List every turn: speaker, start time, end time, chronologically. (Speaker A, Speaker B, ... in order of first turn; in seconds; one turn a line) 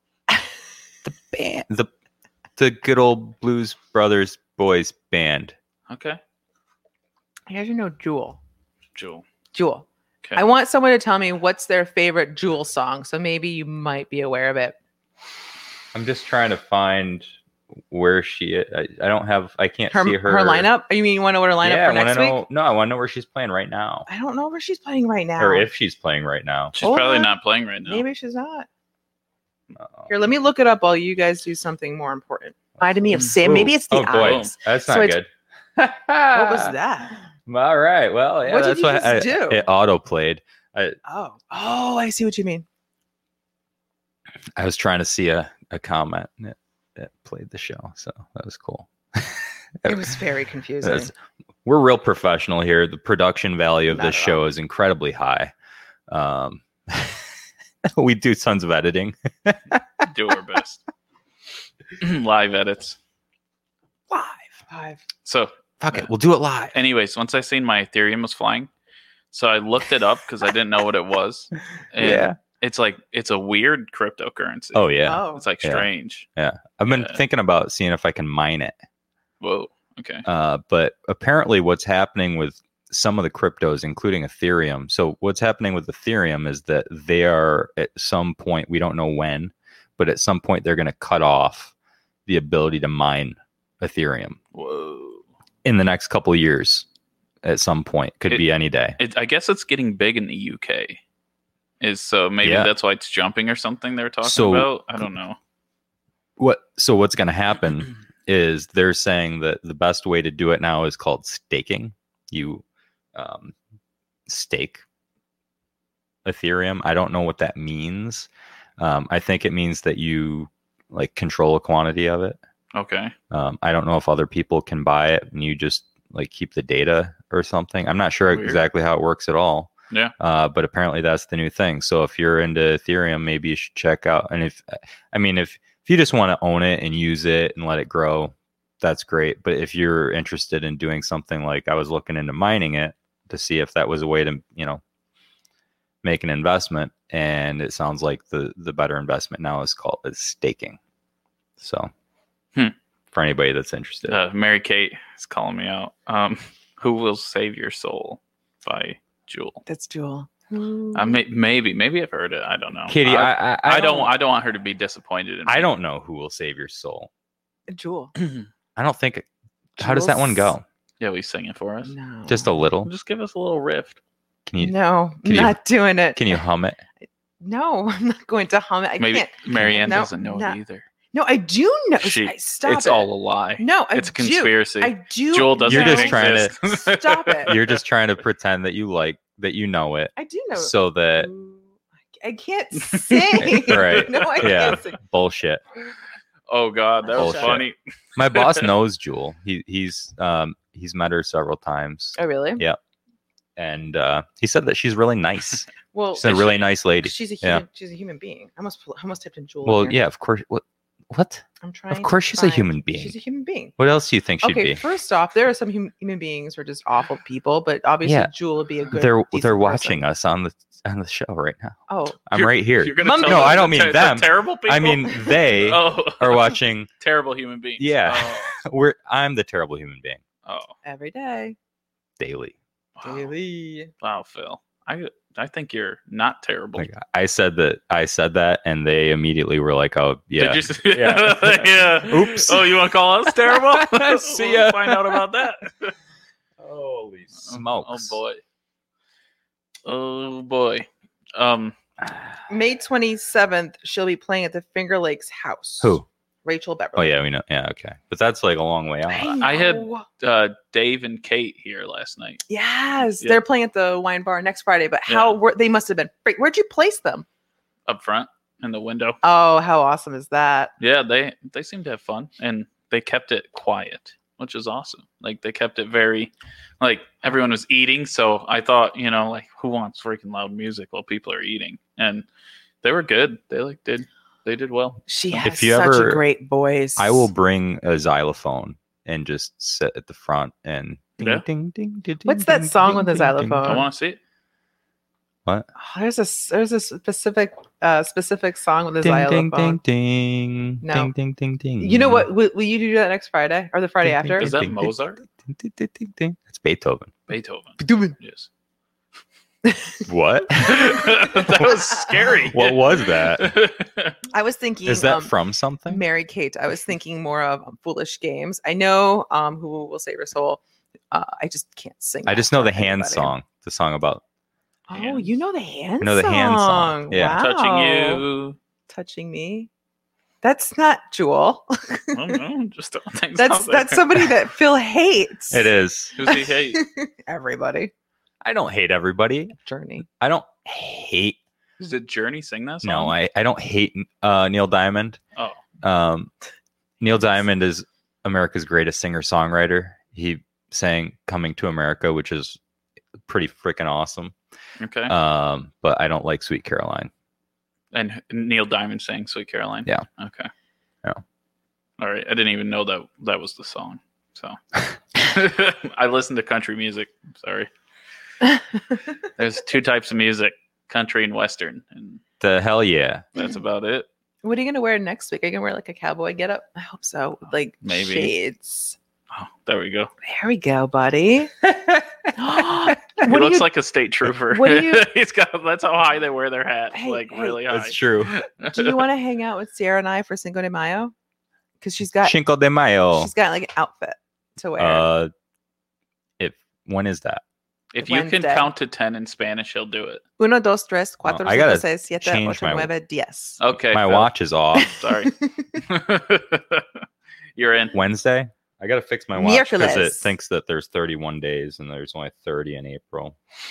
Speaker A: 1.0-1.9
Speaker A: 2.6-5.5
Speaker B: 5.9-6.2
Speaker C: 7.5-8.4
Speaker B: 8.9-9.2
Speaker C: 9.5-14.8
Speaker A: 15.9-17.3
Speaker A: 17.9-20.7
Speaker C: 19.9-22.4
Speaker A: 21.6-24.1
Speaker C: 24.1-25.7
Speaker A: 25.4-26.7
Speaker B: 26.7-28.0
Speaker C: 26.8-27.3
Speaker C: 27.9-28.7
Speaker A: 29.7-30.1
Speaker C: 30.1-35.2
Speaker A: 33.1-36.7
Speaker B: 34.2-34.5
Speaker C: 36.3-37.2
Speaker A: 37.4-41.0
Speaker C: 38.4-39.6
Speaker C: 41.0-42.6
Speaker A: 44.6-50.1
Speaker C: 49.9-51.1
Speaker A: 50.8-51.1
Speaker A: 51.6-55.5
Speaker C: 53.9-54.4
Speaker A: 56.1-57.2
Speaker A: 57.8-60.1
Speaker B: 60.0-60.8
Speaker B: 62.0-63.0
Speaker C: 64.1-65.0
Speaker B: 65.2-66.1
Speaker A: 65.8-66.8
Speaker B: 66.7-68.7
Speaker B: 69.3-76.3
Speaker A: 72.0-72.4
Speaker A: 74.7-78.7
Speaker C: 75.0-75.4
Speaker B: 76.9-77.2
Speaker B: 79.4-80.2
Speaker A: 80.2-91.7
Speaker A: 92.3-94.4
Speaker B: 94.5-95.2
Speaker A: 95.6-96.8
Speaker A: 97.4-99.0
Speaker B: 99.0-101.0
Speaker B: 101.8-105.4
Speaker A: 102.4-102.7
Speaker A: 104.2-104.7
Speaker A: 106.4-112.6
Speaker A: 113.1-113.5
Speaker A: 114.3-114.8
Speaker A: 116.2-122.4
Speaker B: 122.7-123.1
Speaker A: 123.3-144.8
Speaker B: 128.3-128.6
Speaker A: 146.0-150.8
Speaker A: 151.6-151.9
Speaker A: 153.1-154.2
Speaker B: 154.1-159.6
Speaker C: 159.7-161.2
Speaker B: 160.9-165.7
Speaker A: 162.9-164.1
Speaker A: 165.5-167.1
Speaker C: 167.7-168.1
Speaker B: 168.2-168.4
Speaker A: 168.8-170.6
Speaker C: 169.8-170.5
Speaker B: 171.0-171.9
Speaker C: 171.8-172.5
Speaker A: 172.3-172.9
Speaker B: 172.8-174.0
Speaker A: 174.5-175.6
Speaker C: 174.6-176.4
Speaker A: 176.1-176.8
Speaker C: 177.4-180.6
Speaker B: 179.0-180.8
Speaker A: 179.5-180.1
Speaker C: 181.1-187.6
Speaker B: 182.0-187.8
Speaker A: 185.6-186.6
Speaker A: 187.5-191.3
Speaker C: 190.2-195.0
Speaker B: 192.8-194.8
Speaker A: 193.4-195.6
Speaker B: 196.5-198.7
Speaker C: 197.0-197.6
Speaker A: 197.2-202.8
Speaker C: 202.2-202.6
Speaker A: 203.6-207.6
Speaker C: 205.9-210.0
Speaker B: 206.2-206.6
Speaker A: 209.6-213.2
Speaker C: 211.6-213.7
Speaker A: 213.8-214.8
Speaker C: 214.4-220.0
Speaker A: 218.0-218.3
Speaker A: 218.9-226.9
Speaker C: 221.9-222.2
Speaker B: 222.3-228.5
Speaker C: 223.0-223.9
Speaker A: 227.8-230.2
Speaker B: 230.4-230.7
Speaker C: 230.8-231.6
Speaker A: 232.2-232.6
Speaker B: 232.9-233.3
Speaker C: 233.0-233.9
Speaker B: 234.0-236.9
Speaker A: 236.8-242.7
Speaker B: 240.4-245.9
Speaker A: 243.5-245.2
Speaker A: 246.6-248.2
Speaker B: 247.4-248.4
Speaker B: 249.8-251.8
Speaker C: 252.5-257.1
Speaker A: 255.8-256.1
Speaker A: 256.9-259.4
Speaker C: 259.1-260.1
Speaker B: 259.4-262.4
Speaker C: 262.5-267.2
Speaker B: 265.1-265.4
Speaker B: 267.9-269.2
Speaker C: 269.2-270.7
Speaker B: 270.8-282.2
Speaker B: 282.8-285.0
Speaker C: 285.1-287.3
Speaker A: 285.4-286.2
Speaker A: 287.0-293.8
Speaker B: 291.2-291.4
Speaker C: 292.2-293.9
Speaker B: 293.6-294.2
Speaker C: 295.8-299.8
Speaker A: 299.0-302.3
Speaker C: 300.8-301.1
Speaker C: 301.8-304.5
Speaker A: 304.0-307.1
Speaker B: 304.4-305.2
Speaker B: 307.3-308.5
Speaker C: 307.8-308.1
Speaker C: 309.6-310.0
Speaker A: 310.1-311.7
Speaker B: 310.6-314.2
Speaker C: 311.0-312.4
Speaker A: 312.5-313.5
Speaker C: 314.3-315.3
Speaker A: 314.9-316.0
Speaker C: 315.9-323.3
Speaker A: 322.2-324.2
Speaker C: 324.9-328.2
Speaker B: 324.9-325.3
Speaker A: 326.0-327.4
Speaker B: 327.4-328.6
Speaker C: 328.9-329.7
Speaker C: 330.4-332.4
Speaker B: 332.1-334.3
Speaker C: 333.4-335.7
Speaker A: 335.5-336.1
Speaker B: 336.1-336.8
Speaker C: 336.2-337.9
Speaker A: 338.4-341.4
Speaker C: 339.6-340.0
Speaker B: 341.8-343.1
Speaker A: 342.8-345.2
Speaker A: 345.8-346.3
Speaker A: 347.0-352.6
Speaker A: 353.2-354.3
Speaker B: 354.8-355.1
Speaker A: 355.1-357.1
Speaker B: 357.9-360.5
Speaker B: 362.0-364.6
Speaker B: 365.1-367.7
Speaker B: 369.4-372.2
Speaker A: 372.4-373.2
Speaker B: 373.4-374.1
Speaker C: 374.4-379.0
Speaker B: 377.8-378.3
Speaker B: 379.3-380.1
Speaker C: 380.2-381.5
Speaker A: 381.8-382.3
Speaker C: 382.3-383.7
Speaker B: 383.2-389.1
Speaker C: 384.5-385.1
Speaker C: 386.9-387.6
Speaker A: 387.7-388.3
Speaker C: 388.7-391.1
Speaker C: 391.8-392.4
Speaker A: 392.2-393.3
Speaker C: 393.1-395.1
Speaker A: 394.8-395.3
Speaker A: 396.4-397.4
Speaker B: 397.9-400.2
Speaker C: 398.0-398.7
Speaker C: 400.4-403.6
Speaker A: 401.2-402.9
Speaker B: 403.6-407.0
Speaker A: 403.9-404.9
Speaker C: 404.8-405.8
Speaker B: 407.6-407.9
Speaker A: 407.9-413.4
Speaker C: 409.3-410.3